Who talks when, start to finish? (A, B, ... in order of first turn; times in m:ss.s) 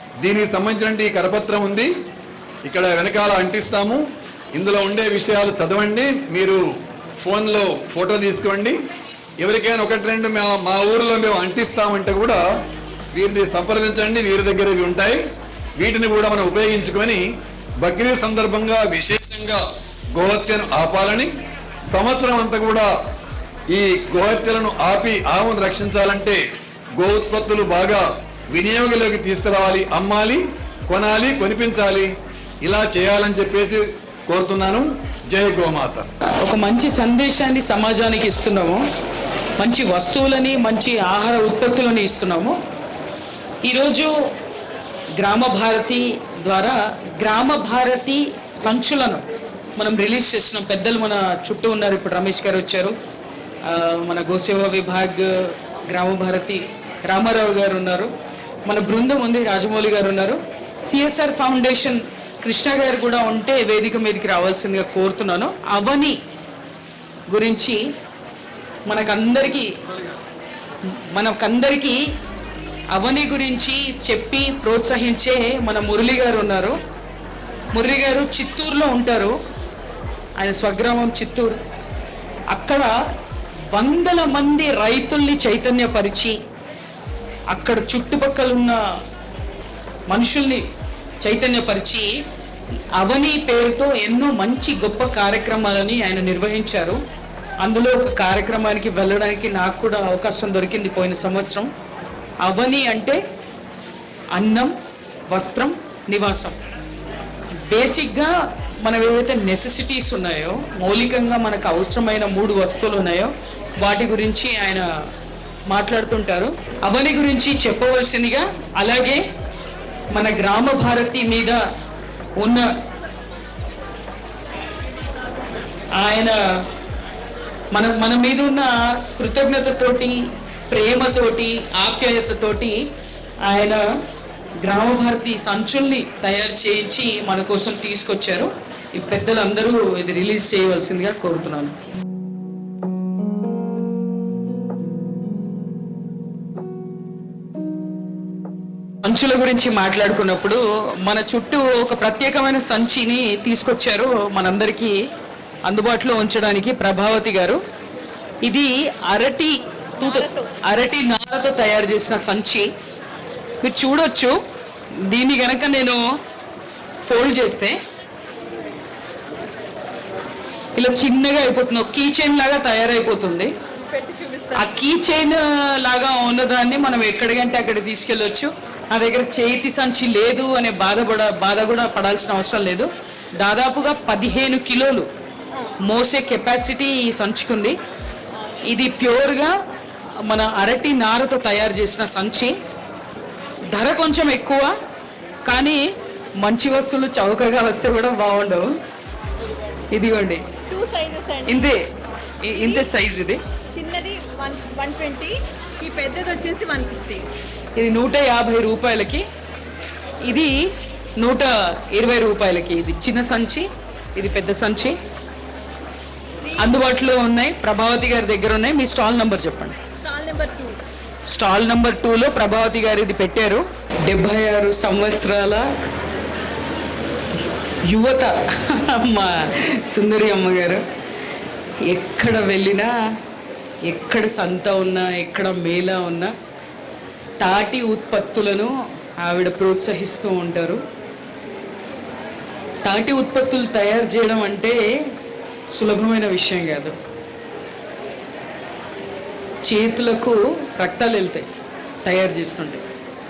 0:00.2-0:01.9 A
0:02.6-0:04.0 A
0:04.5-0:06.6 A
0:07.2-0:08.8 A
0:09.4-0:12.4 A
0:13.1-0:15.2 A
0:15.8-0:17.2 A
0:17.8-0:19.6 A
0:20.1-0:21.3 A
0:21.9-0:22.9 A
0:23.7-0:26.4 A
0:27.0-0:32.1 A
0:32.6-0:36.1 A
0:36.4-0:38.8 B
0:39.6-0:42.6 B
0:43.6-0:44.1 B
0:45.2-0:49.2 B
0:49.8-0:52.9 B
0:53.7-0:55.3 B
0:55.9-0:58.1 B
0:58.7-1:06.2 B
1:07.3-1:07.8 B
1:08.9-1:09.7 B
1:11.1-1:12.0 B
1:12.9-1:16.8 B
1:17.7-1:19.3 B
1:20.4-1:21.6 B
1:22.5-1:22.9 B
1:23.7-1:26.4 B
1:27.5-1:28.8 B
1:30.1-1:30.6 B
1:31.2-1:32.1 B
1:33.0-1:37.0 B
1:37.6-1:41.7 B
1:42.4-1:43.2 B
1:44.3-1:44.7 B
1:45.3-1:46.6 B
1:47.7-1:48.3 B
1:48.8-1:54.8 B
1:55.7-1:59.2 B
2:00.1-2:01.6 B
2:02.4-2:02.7 B
2:06.0-2:06.3 B
2:07.7-2:10.2 B
2:10.7-2:12.8 B
2:13.4-2:13.8 B
2:14.6-2:21.8 B
2:29.0-2:35.0 B
2:35.6-2:37.6 B
2:38.4-2:42.7 B
2:40.0-2:40.5 C
2:43.6-2:44.4 B
2:45.1-2:46.0 B
2:47.0-2:47.8 B
2:50.8-2:53.5 B
2:53.8-2:54.8 C
2:54.5-3:02.9 B
3:03.4-3:05.1 B
3:05.8-3:07.8 B
3:08.7-3:09.5 B
3:10.3-3:12.5 B
3:13.7-3:14.7 B
3:15.4-3:15.8 B
3:16.4-3:18.6 B
3:19.9-3:20.4 B
3:20.7-3:21.7 C
3:21.4-3:21.8 B
3:22.4-3:23.4 B
3:22.5-3:22.9 C
3:23.7-3:27.3 C
3:27.8-3:29.2 B
3:30.2-3:30.6 B
3:31.2-3:35.0 B
3:36.4-3:36.8 C
3:36.6-3:39.8 B
3:39.9-3:40.8 C
3:41.3-3:45.6 B
3:47.9-3:50.8 B
3:51.9-3:52.9 B
3:53.9-3:56.3 B
3:57.4-3:58.7 B
3:59.2-4:00.8 B
4:02.8-4:04.8 B
4:05.7-4:06.9 B
4:09.6-4:11.5 B
4:12.0-4:12.8 B